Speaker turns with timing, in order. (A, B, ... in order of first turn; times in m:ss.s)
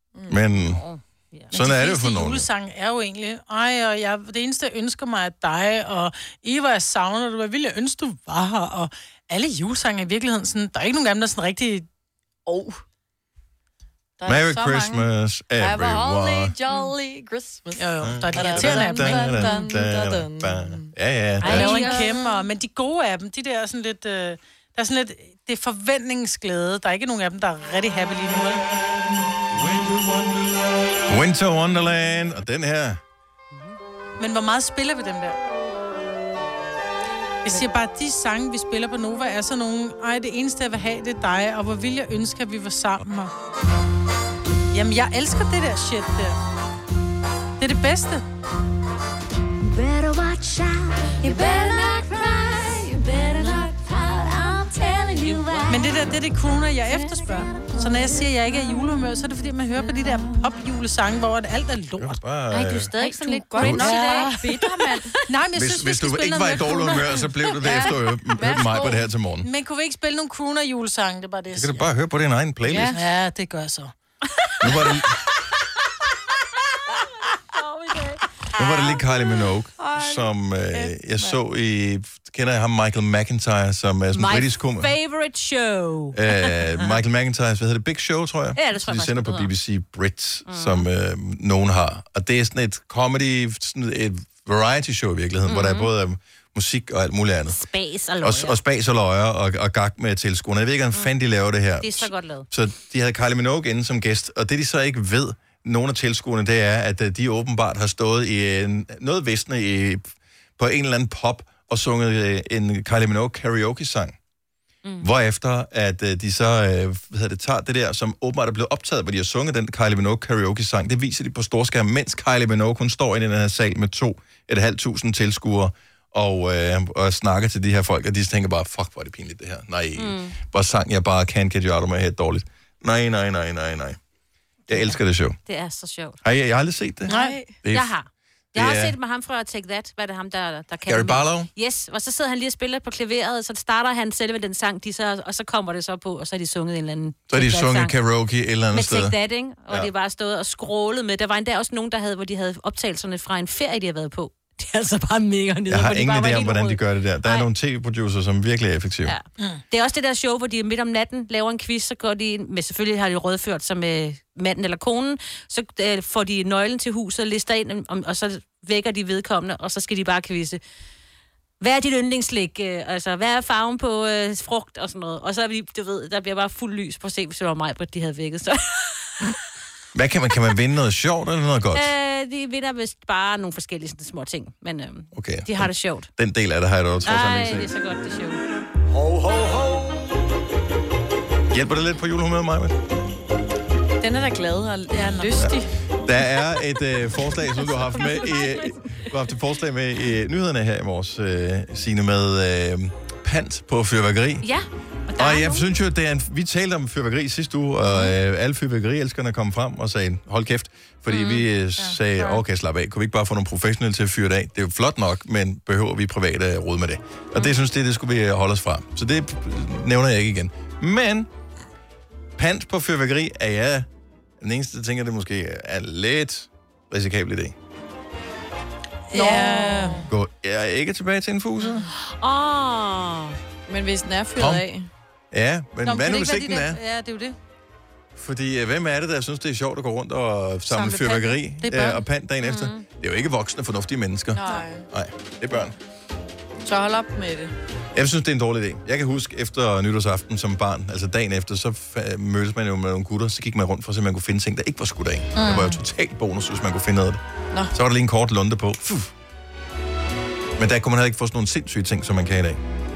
0:00.1-0:00.4 A
0:00.3-0:00.8 B
0:00.5-0:01.5 C
0:01.5-0:02.5 B
0:01.5-0:11.8 D
0:12.4-0:12.8 A
0:14.2-0:15.1 A
0:14.2-0:16.5 B
0:15.6-0:20.9 A
0:17.8-0:19.7 D
0:18.0-0:21.8 B
0:21.4-0:22.1 C
0:21.4-0:28.6 D
0:21.4-0:22.2 A
0:29.5-0:30.4 B
0:31.0-0:33.0 B
0:34.2-0:35.4 D
0:37.4-0:43.3 D
0:44.7-0:46.4 D
0:47.6-0:48.2 D
0:51.2-0:55.9 E
0:55.2-0:55.9 C
0:55.7-1:02.2 D
1:02.0-1:02.9 B
1:02.5-1:05.2 C
1:03.0-1:05.1 A
1:03.6-1:04.0 B
1:03.9-1:04.6 D
1:05.2-1:07.2 D
1:05.5-1:09.5 B
1:07.6-1:09.0 A
1:09.4-1:11.9 D
1:11.5-1:13.0 B
1:12.6-1:13.0 A
1:12.9-1:13.9 D
1:14.6-1:15.2 B
1:18.6-1:24.9 B
1:18.6-1:19.0 D
1:19.8-1:20.2 A
1:24.1-1:26.9 C
1:26.1-1:37.6 B
1:28.6-1:29.5 C
1:30.5-1:30.8 C
1:35.4-1:35.9 C
1:37.5-1:38.6 C
1:38.2-1:50.0 B
1:41.8-1:42.5 C
1:50.6-1:54.2 B
1:55.0-2:14.0 B
2:10.0-2:10.4 C
2:14.7-2:15.4 B
2:14.7-2:16.2 C
2:16.2-2:17.9 B
2:17.0-2:17.4 D
2:17.0-2:17.5 A
2:17.7-2:27.9 C
2:18.5-2:19.0 B
2:20.8-2:21.5 B
2:27.3-2:29.1 B
2:28.7-2:37.5 C
2:35.7-2:39.1 B
2:39.0-2:50.6 C
2:51.6-2:59.3 C
2:59.9-3:01.9 B
3:01.7-3:06.1 C
3:05.1-3:07.7 B
3:07.0-3:08.4 C
3:11.5-3:12.8 B
3:14.0-3:15.7 A
3:14.9-3:15.5 D
3:15.4-3:24.4 B
3:17.9-3:18.4 C
3:24.4-3:25.6 C
3:25.2-3:41.3 B
3:31.1-3:31.4 C
3:42.4-3:43.9 B
3:44.4-3:47.5 B
3:49.1-3:50.1 D
3:49.1-3:50.1 A
3:50.1-3:51.9 B
3:52.0-3:53.4 C
3:53.7-3:54.9 A
3:54.4-3:54.6 B
3:55.3-3:56.8 B
3:55.8-3:57.3 D
3:58.2-4:05.7 B
4:00.7-4:02.0 D
4:02.4-4:02.8 C
4:04.3-4:04.8 A
4:06.6-4:07.5 A
4:07.9-4:17.2 B
4:15.4-4:15.8 D
4:17.7-4:19.1 B
4:20.6-4:22.6 B